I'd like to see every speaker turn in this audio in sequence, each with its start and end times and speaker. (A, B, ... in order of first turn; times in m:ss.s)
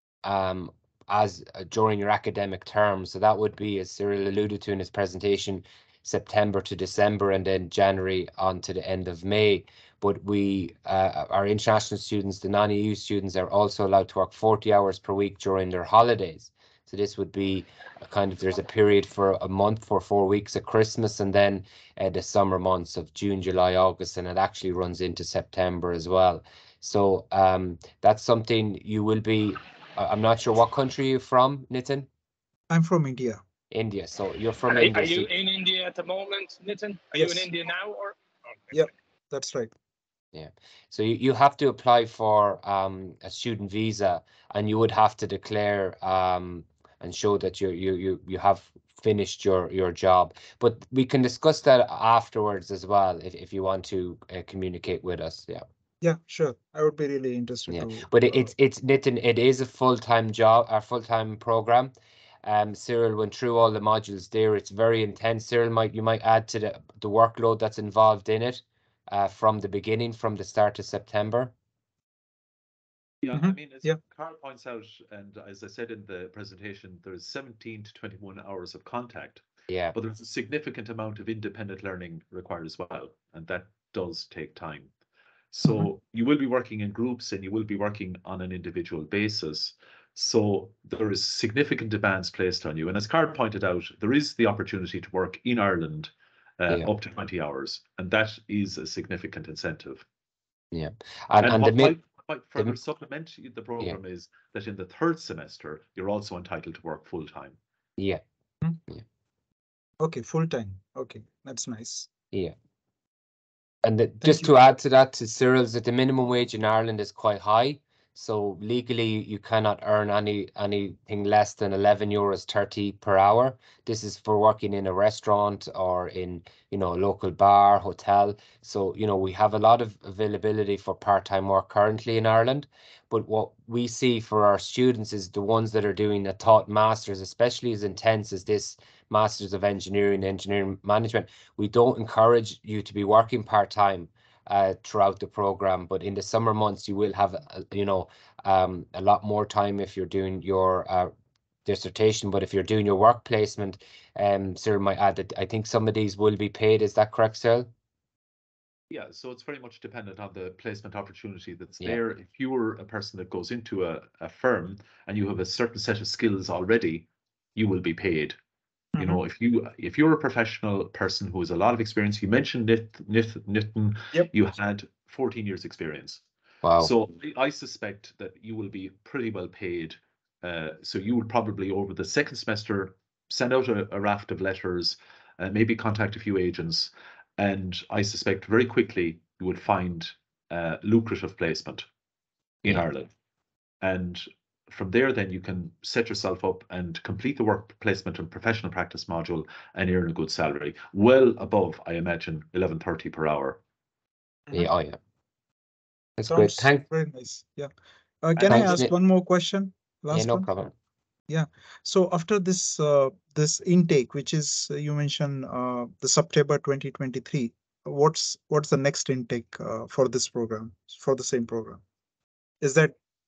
0:00.2-0:32.1 A
0:32.7-0:33.4 B
0:33.7-0:35.3 A
0:34.7-0:38.2 C
0:37.1-0:37.5 B
0:38.7-0:39.7 B
0:40.3-0:55.6 A
0:56.0-0:58.5 B
0:57.7-1:01.9 A
1:02.4-1:11.5 A
1:13.2-1:19.4 D
1:13.3-1:14.0 B
1:19.7-1:19.9 A
1:19.9-1:24.9 D
1:25.5-1:40.0 D
1:40.7-1:42.0 A
1:41.4-1:47.6 D
1:50.0-1:52.1 B
1:53.8-2:31.1 A
1:54.2-1:54.5 B
2:31.6-2:37.7 A
2:38.9-2:48.4 D
2:48.9-2:49.2 B
2:49.0-2:56.2 D
2:56.6-2:56.9 A
2:56.8-3:11.8 D
3:12.6-3:13.1 D
3:13.8-3:23.6 D
3:24.5-3:25.0 A
3:26.2-3:26.8 A
3:26.3-3:27.7 B
3:28.2-3:30.5 B
3:28.4-3:28.9 A
3:30.1-3:30.7 A
3:31.3-3:41.8 B
3:42.6-3:43.0 B